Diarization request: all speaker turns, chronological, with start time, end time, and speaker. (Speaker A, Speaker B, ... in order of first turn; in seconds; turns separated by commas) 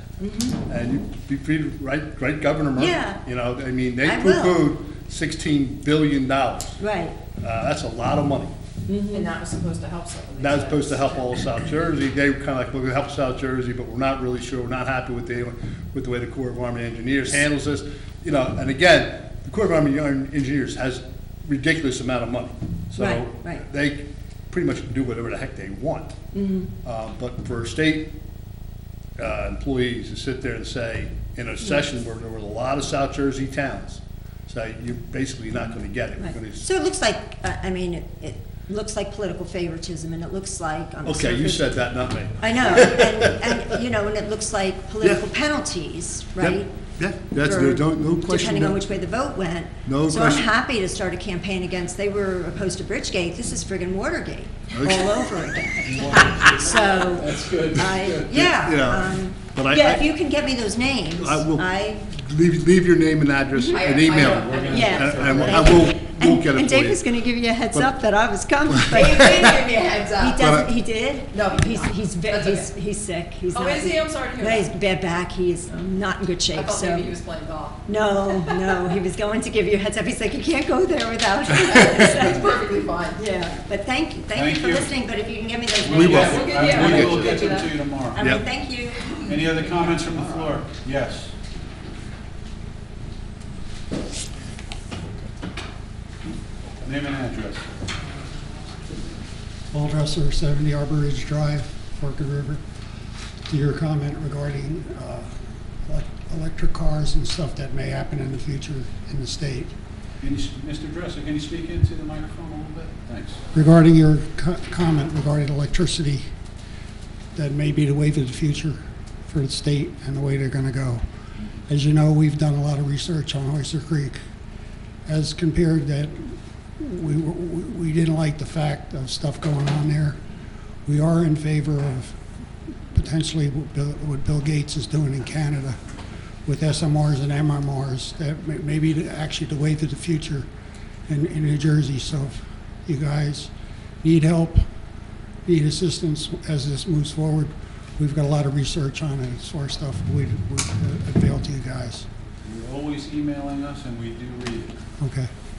Speaker A: 0.2-0.6, Speaker B: 0.6-6.8, Speaker A: 2.8-3.2, Speaker A: 4.0-4.7, Speaker A: 6.8-7.2, Speaker B: 7.4-8.5, Speaker A: 8.9-9.3, Speaker C: 9.1-11.4, Speaker B: 10.4-26.1, Speaker A: 23.0-23.6, Speaker A: 26.3-26.7, Speaker B: 26.8-28.1, Speaker B: 29.2-36.7, Speaker A: 36.2-41.7, Speaker B: 41.0-43.4, Speaker A: 42.4-46.8, Speaker B: 46.4-48.8, Speaker A: 47.4-62.0, Speaker B: 49.9-50.4, Speaker B: 54.7-55.2, Speaker D: 55.9-58.4, Speaker B: 58.3-60.0, Speaker B: 61.1-67.0, Speaker A: 63.5-63.8, Speaker C: 63.7-65.2, Speaker D: 64.3-65.8, Speaker A: 64.7-77.1, Speaker B: 68.7-69.5, Speaker C: 68.9-70.4, Speaker B: 70.4-70.7, Speaker C: 71.3-72.7, Speaker C: 73.5-74.7, Speaker C: 76.5-78.6, Speaker A: 77.8-82.5, Speaker C: 81.6-83.2, Speaker A: 83.2-87.4, Speaker D: 84.3-84.9, Speaker D: 85.8-88.2, Speaker B: 85.9-87.3, Speaker C: 86.1-87.8, Speaker A: 88.1-89.1, Speaker B: 88.2-88.4, Speaker D: 89.2-91.3, Speaker D: 96.8-97.7, Speaker E: 99.7-102.6, Speaker E: 103.5-105.3, Speaker E: 105.8-109.7, Speaker D: 110.2-113.4, Speaker E: 113.5-116.3, Speaker E: 117.3-121.0, Speaker E: 121.7-124.2, Speaker E: 125.1-130.2, Speaker E: 130.8-132.2, Speaker E: 132.9-135.8, Speaker E: 136.4-140.5, Speaker E: 141.1-143.5, Speaker E: 144.0-144.7, Speaker E: 145.4-152.1, Speaker D: 152.4-154.8, Speaker E: 155.0-155.3